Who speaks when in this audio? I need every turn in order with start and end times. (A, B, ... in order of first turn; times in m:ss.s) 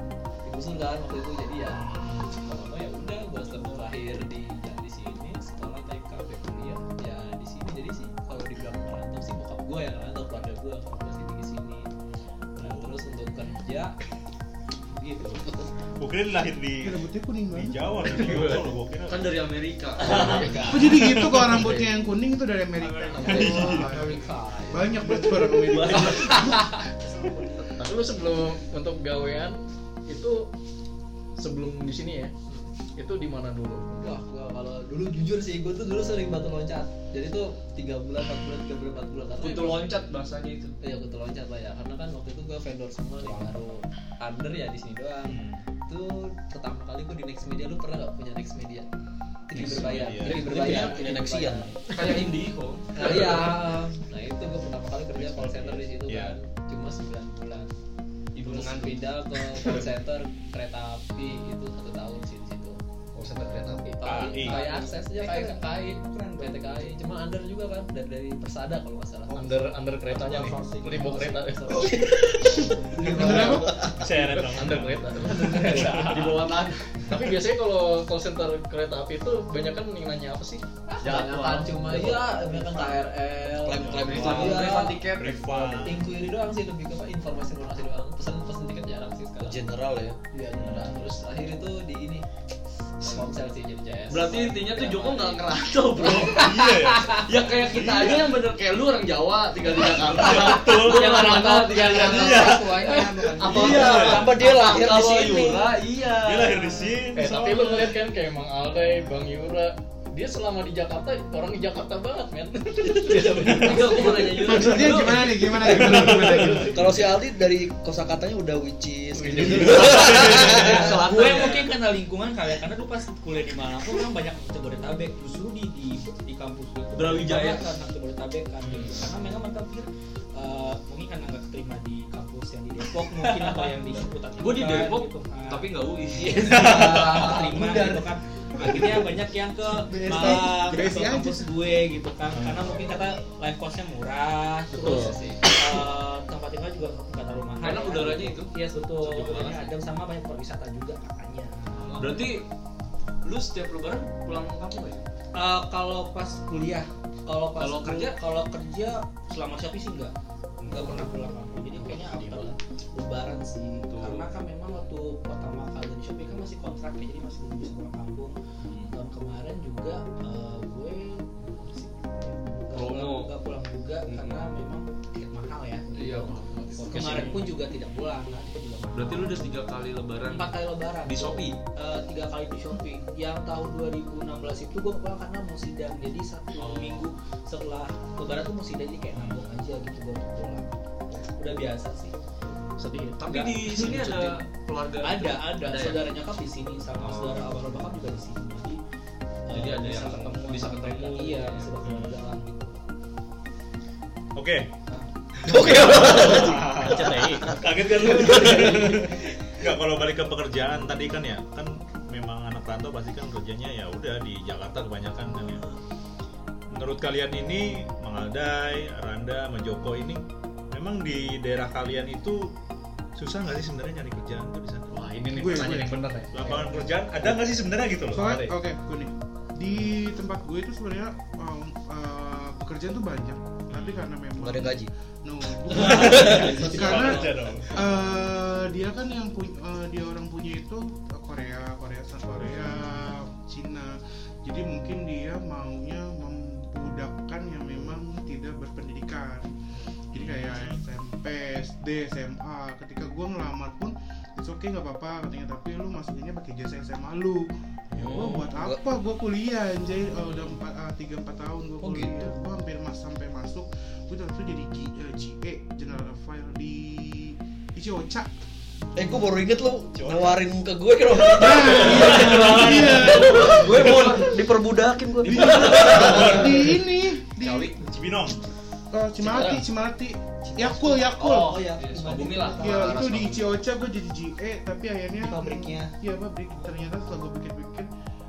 0:00.4-0:11.9 A
0:12.5-0:14.0 A
0:12.6-0:13.0 B
0:14.9-0:15.7 A
0:16.0-0:19.4 B
0:16.8-0:18.3 C
0:18.1-0:20.8 D
0:20.0-0:21.0 A
0:20.0-0:21.6 B
0:20.3-0:20.7 E
0:20.7-0:24.1 C
0:21.5-0:21.9 E
0:23.0-0:24.9 A
0:23.2-0:24.1 B
0:23.2-0:24.4 F
0:24.7-0:27.6 C
0:25.4-0:26.5 D
0:25.9-0:26.7 A
0:27.0-0:27.7 G
0:27.8-0:29.6 E
0:30.1-0:30.5 E
0:31.4-0:32.3 E
0:33.0-0:34.2 E
0:33.9-0:40.0 A
0:39.4-0:40.8 D
0:40.8-0:48.9 A
0:45.3-0:45.6 B
0:49.5-0:52.3 A
0:49.5-0:50.6 B
0:49.6-0:51.7 F
0:51.9-0:53.7 D
0:52.9-0:57.7 A
0:53.0-0:53.3 B
0:55.2-0:56.4 B
0:58.3-1:02.8 A
0:58.4-0:59.1 D
0:59.6-0:59.9 B
1:03.2-1:04.0 E
1:03.7-1:09.6 A
1:04.0-1:04.6 B
1:04.3-1:07.0 G
1:09.3-1:12.0 E
1:10.1-1:11.9 G
1:11.7-1:14.0 A
1:11.8-1:12.4 F
1:12.7-1:13.2 G
1:13.0-1:14.0 F
1:13.1-1:13.8 C
1:13.9-1:15.8 B
1:14.3-1:16.4 E
1:14.6-1:17.3 A
1:15.6-1:16.6 D
1:17.0-1:20.6 E
1:21.0-1:29.6 A
1:21.0-1:22.1 D
1:23.6-1:24.9 F
1:23.7-1:26.2 B
1:24.2-1:24.9 D
1:29.4-1:30.2 F
1:30.3-1:32.2 A
1:30.6-1:31.0 B
1:33.0-1:37.2 A
1:34.1-1:47.0 D
1:36.0-1:38.4 B
1:39.6-1:44.5 A
1:39.9-1:41.5 B
1:42.0-1:42.8 B
1:43.3-1:45.7 F
1:43.6-1:44.3 B
1:46.1-1:48.0 B
1:47.1-1:54.0 E
1:53.0-1:54.4 A
1:53.1-1:56.0 D
1:54.4-1:57.0 C
1:55.6-2:01.0 F
1:55.6-1:56.5 B
1:56.4-1:56.7 E
1:59.2-2:00.0 E
1:59.2-2:01.0 B
2:00.0-2:01.7 D
2:00.6-2:32.2 G
2:06.9-2:07.7 D
2:08.6-2:09.1 B
2:14.4-2:18.0 D
2:16.5-2:17.2 B
2:18.6-2:19.0 C
2:19.8-2:21.6 C
2:22.3-2:22.8 B
2:24.7-2:25.5 A
2:27.6-2:29.7 D
2:32.0-2:32.4 D
2:33.2-2:35.0 D
2:35.4-2:48.4 G
2:37.6-2:38.2 D
2:40.6-2:41.1 D
2:41.8-2:42.5 E
2:43.9-2:44.3 D
2:48.9-2:59.6 G
2:52.7-2:53.3 D
2:54.1-2:54.4 D
2:55.9-2:57.5 A
2:58.9-3:01.6 D
3:00.3-3:12.1 G
3:06.6-3:07.0 D
3:09.1-3:09.4 B
3:12.8-3:14.3 E
3:13.2-3:16.1 D
3:15.0-3:18.8 G
3:17.0-3:17.4 D
3:19.5-3:22.8 G
3:19.5-3:21.8 D
3:21.8-3:22.3 B
3:24.4-3:24.7 B
3:25.4-3:27.6 F
3:25.5-3:27.6 E
3:25.6-3:35.6 B
3:28.4-3:28.8 A
3:36.7-3:42.5 B
3:43.2-3:45.7 B
3:44.9-3:47.4 E
3:45.3-3:46.0 C
3:46.3-3:48.4 B
3:48.1-4:09.6 C
3:48.1-3:48.5 E
3:49.7-3:49.9 B
3:53.7-3:54.1 B
3:54.4-3:54.9 F
3:55.7-3:58.1 B
3:55.7-3:56.9 F
3:55.8-3:57.6 G
4:02.3-4:03.1 B
4:10.1-4:10.8 B
4:10.1-4:28.3 C
4:17.9-4:18.8 F
4:21.8-4:22.3 F
4:28.9-4:36.8 F
4:29.9-4:30.5 B
4:31.1-4:34.1 B
4:31.4-4:34.2 C
4:33.4-4:34.3 D
4:35.2-4:37.7 C
4:35.4-4:36.5 B
4:35.6-4:36.4 D
4:37.4-4:37.8 D
4:37.8-4:38.4 B
4:38.9-4:41.7 C
4:39.2-4:39.6 E
4:40.5-4:43.1 G
4:41.2-4:43.6 D
4:42.6-4:47.9 C
4:45.2-4:45.9 G